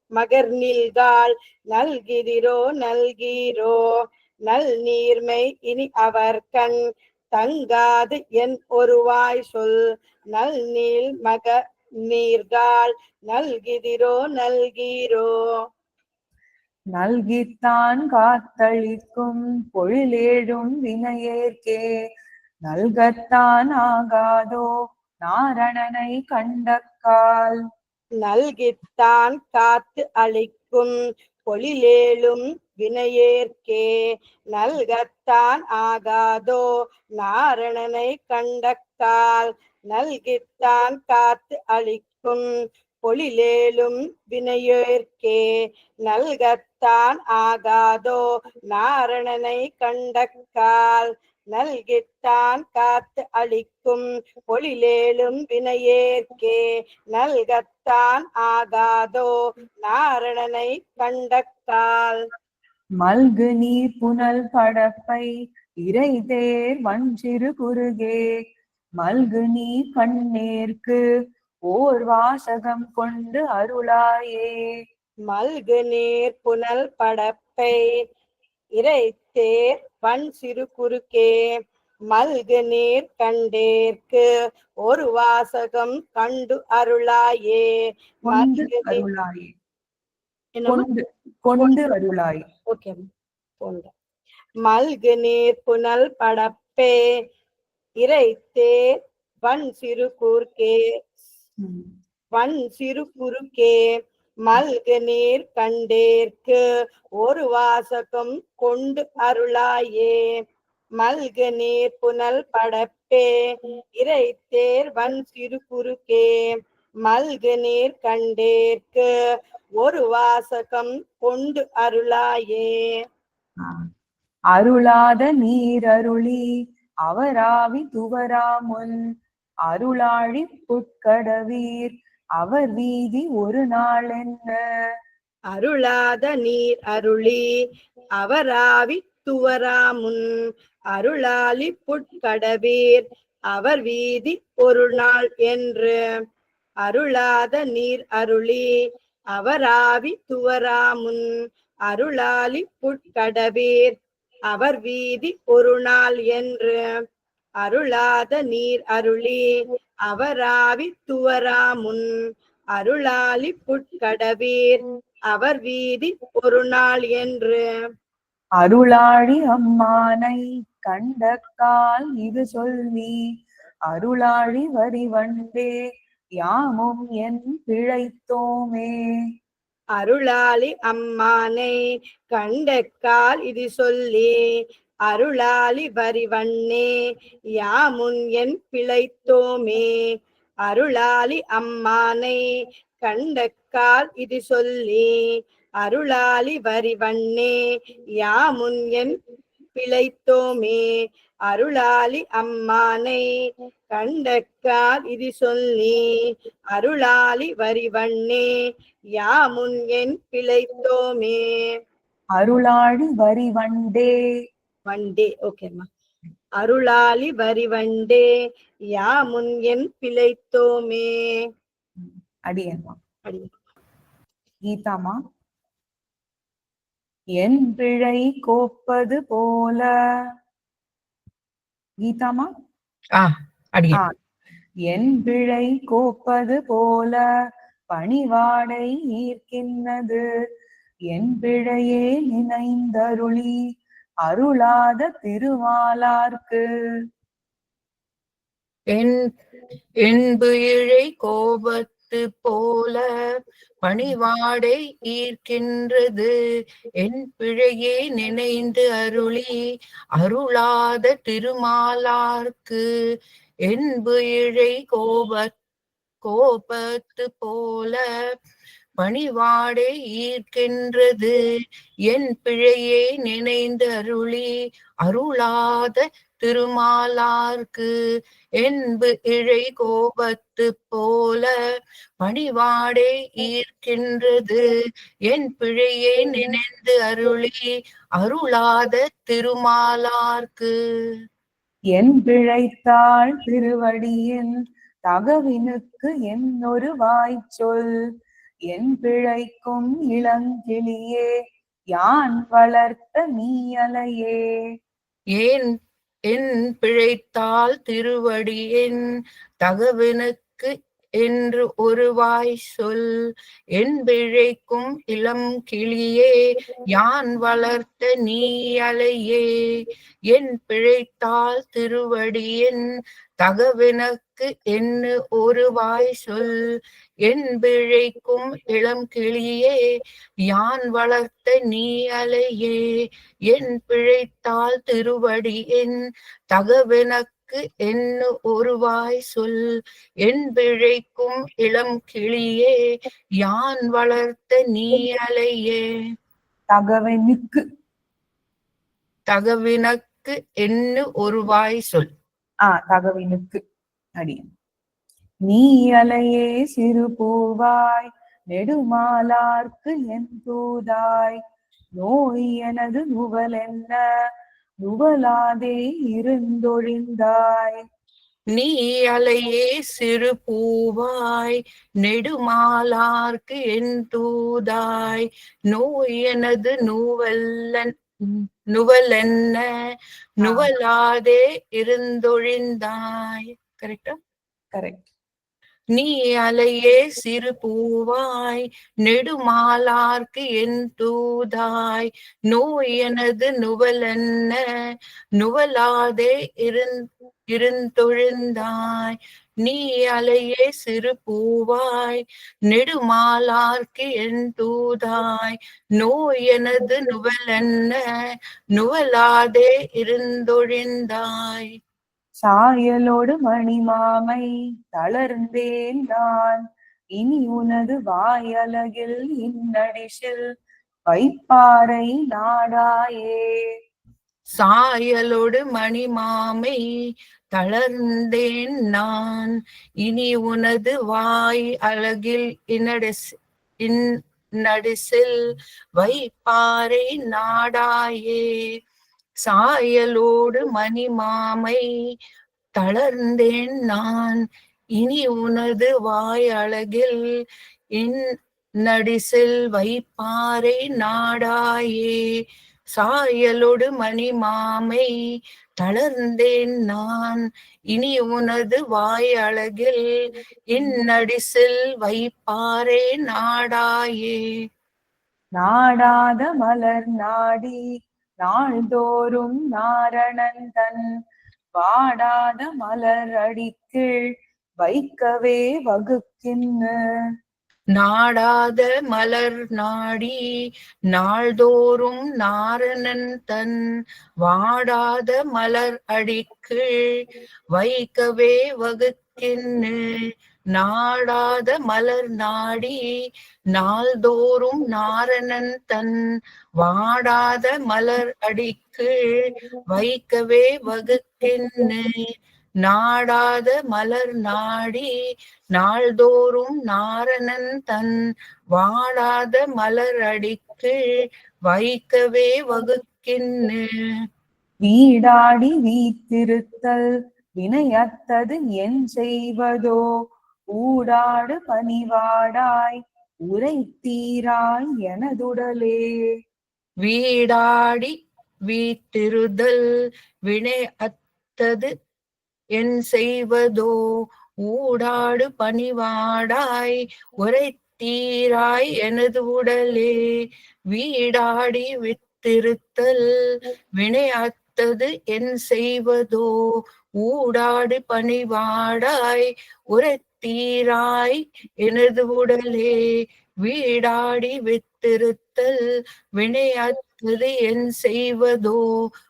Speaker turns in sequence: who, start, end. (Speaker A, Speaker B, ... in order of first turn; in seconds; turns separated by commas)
Speaker A: 0.1-3.8, Speaker A: 4.5-6.8, Speaker A: 7.3-9.8, Speaker A: 10.3-11.5, Speaker A: 12.1-15.3, Speaker B: 16.9-21.8, Speaker B: 22.7-24.6, Speaker B: 25.2-27.6, Speaker A: 28.2-30.9, Speaker A: 31.5-33.9, Speaker A: 34.5-36.6, Speaker A: 37.2-42.4, Speaker A: 43.0-45.4, Speaker A: 46.0-56.6, Speaker A: 57.1-59.3, Speaker A: 59.8-62.2, Speaker B: 63.0-65.3, Speaker B: 65.8-68.2, Speaker B: 69.0-71.0, Speaker B: 71.7-74.5, Speaker A: 75.3-77.8, Speaker A: 78.8-81.4, Speaker A: 82.1-84.2, Speaker A: 84.8-87.7, Speaker A: 88.3-89.0, Speaker B: 88.3-89.5, Speaker A: 90.6-90.8, Speaker B: 90.7-92.4, Speaker A: 92.7-93.0, Speaker A: 93.6-93.9, Speaker A: 94.6-97.0, Speaker A: 98.0-98.8, Speaker A: 99.4-100.8, Speaker A: 102.3-103.8, Speaker A: 104.4-106.6, Speaker A: 107.2-110.3, Speaker A: 111.0-113.3, Speaker A: 114.0-116.4, Speaker A: 117.0-119.1, Speaker A: 119.8-122.8, Speaker B: 124.5-126.4, Speaker B: 127.1-128.9, Speaker B: 129.7-134.6, Speaker A: 135.5-137.4, Speaker A: 138.2-140.2, Speaker A: 140.9-145.9, Speaker A: 146.8-148.7, Speaker A: 149.3-151.2, Speaker A: 151.9-154.0, Speaker A: 154.5-156.8, Speaker A: 157.6-159.4, Speaker A: 160.1-162.0, Speaker A: 162.8-164.8, Speaker A: 165.3-167.6, Speaker B: 168.6-173.1, Speaker B: 173.9-175.7, Speaker B: 176.4-178.9, Speaker A: 180.0-181.7, Speaker A: 182.3-184.3, Speaker A: 185.1-186.9, Speaker A: 187.6-189.9, Speaker A: 190.7-192.4, Speaker A: 193.0-195.1, Speaker A: 195.8-197.5, Speaker A: 198.2-199.1, Speaker A: 199.7-200.8, Speaker A: 201.5-203.2, Speaker A: 203.9-206.0, Speaker A: 206.7-208.4, Speaker A: 209.2-211.4, Speaker B: 212.4-214.1, Speaker A: 214.9-215.8, Speaker A: 216.6-218.3, Speaker A: 218.9-221.1, Speaker B: 222.0-222.9, Speaker B: 224.7-225.2, Speaker B: 227.4-229.9, Speaker B: 232.0-232.5, Speaker C: 233.2-234.0, Speaker B: 234.9-237.2, Speaker B: 237.9-240.2, Speaker B: 241.1-243.5, Speaker B: 244.2-246.6, Speaker C: 248.9-249.2, Speaker C: 250.0-253.0, Speaker C: 253.8-256.3, Speaker C: 257.0-259.5, Speaker C: 260.2-262.8, Speaker C: 263.7-265.5, Speaker C: 266.2-268.0, Speaker C: 269.0-271.4, Speaker C: 272.1-274.5, Speaker C: 275.0-277.9, Speaker C: 278.6-281.5, Speaker C: 282.2-284.6, Speaker C: 285.3-290.7, Speaker B: 291.9-294.5, Speaker B: 295.1-297.9, Speaker B: 298.7-301.3, Speaker B: 301.9-304.4, Speaker C: 305.3-305.7, Speaker C: 306.3-309.0, Speaker C: 309.6-313.0, Speaker C: 313.8-316.3, Speaker C: 316.9-319.4, Speaker C: 320.3-322.8, Speaker C: 323.4-326.5, Speaker C: 327.2-329.8, Speaker C: 330.5-332.8, Speaker C: 333.5-335.9, Speaker C: 336.5-339.6, Speaker C: 340.2-342.7, Speaker C: 343.4-345.8, Speaker B: 346.7-347.6, Speaker C: 349.3-352.1, Speaker B: 352.7-353.6, Speaker B: 354.2-354.5, Speaker B: 355.5-361.4, Speaker B: 362.0-364.0, Speaker B: 364.8-367.8, Speaker C: 368.5-379.6, Speaker C: 380.4-384.2, Speaker B: 380.4-380.7, Speaker B: 384.7-385.1, Speaker C: 385.9-394.6, Speaker C: 395.4-396.9, Speaker C: 397.5-408.0, Speaker C: 408.8-411.7, Speaker B: 412.4-414.4, Speaker B: 414.9-416.6, Speaker B: 417.2-420.4, Speaker B: 421.1-423.4, Speaker C: 424.6-426.8, Speaker C: 427.5-429.5, Speaker C: 430.1-433.2, Speaker C: 434.6-435.3, Speaker C: 435.9-438.4, Speaker C: 439.4-441.8, Speaker C: 442.8-444.4, Speaker C: 445.0-447.1, Speaker C: 448.8-452.2, Speaker C: 452.9-455.1, Speaker C: 455.8-457.4, Speaker C: 457.9-460.0, Speaker C: 460.7-464.4, Speaker B: 465.6-467.8, Speaker B: 468.4-471.0, Speaker B: 471.8-474.1, Speaker B: 474.8-476.9, Speaker C: 477.9-480.4, Speaker C: 481.1-483.7, Speaker C: 484.4-486.9, Speaker C: 487.7-490.0, Speaker C: 490.7-493.0, Speaker C: 493.7-496.1, Speaker C: 496.8-502.1, Speaker C: 502.8-505.1, Speaker C: 505.7-508.1, Speaker C: 508.7-510.9, Speaker C: 511.7-513.8, Speaker B: 514.8-517.0, Speaker B: 517.6-520.0, Speaker B: 520.8-523.0, Speaker B: 523.5-526.0, Speaker C: 527.0-528.1, Speaker C: 528.7-529.8, Speaker C: 530.5-531.9, Speaker C: 532.8-533.9, Speaker C: 534.7-540.1, Speaker C: 540.9-543.2, Speaker C: 544.0-546.5, Speaker C: 547.2-552.9, Speaker C: 553.6-555.7, Speaker C: 556.4-558.8